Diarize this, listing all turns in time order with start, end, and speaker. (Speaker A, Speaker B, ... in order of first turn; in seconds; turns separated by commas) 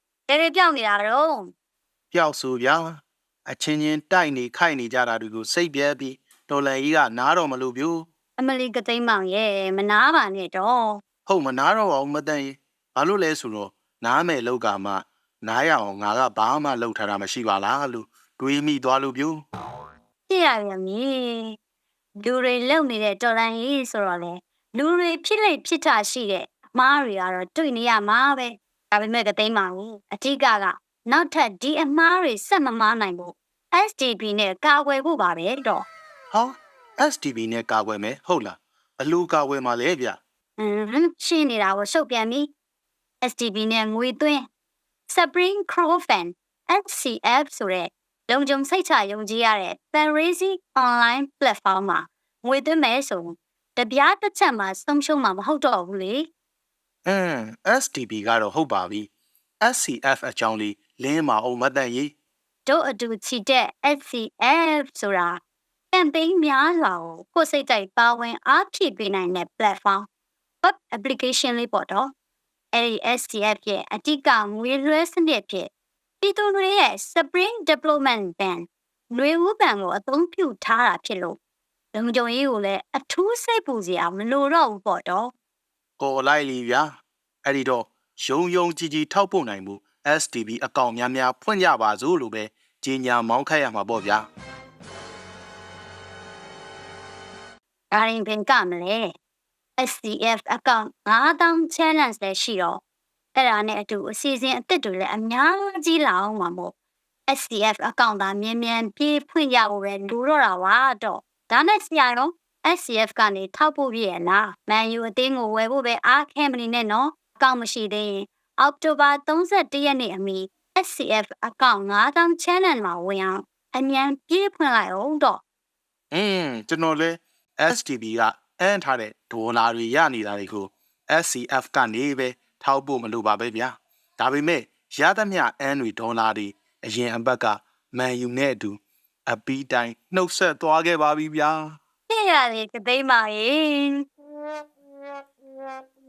Speaker A: 0.3-1.5, Speaker B: 2.1-8.1, Speaker A: 8.4-11.0, Speaker B: 11.3-19.4, Speaker A: 20.3-21.6, Speaker A: 22.2-35.9, Speaker B: 36.3-40.2, Speaker A: 40.6-42.5, Speaker A: 43.2-44.5, Speaker A: 45.1-56.3, Speaker B: 57.1-59.1, Speaker B: 59.6-62.1, Speaker A: 62.7-65.4, Speaker A: 65.9-70.1, Speaker A: 70.6-72.1, Speaker A: 72.7-81.4, Speaker A: 81.9-85.3, Speaker B: 86.0-94.3, Speaker A: 97.9-99.1, Speaker A: 99.8-102.8, Speaker A: 103.3-106.7, Speaker A: 107.3-125.4, Speaker B: 126.1-141.8, Speaker A: 142.1-144.0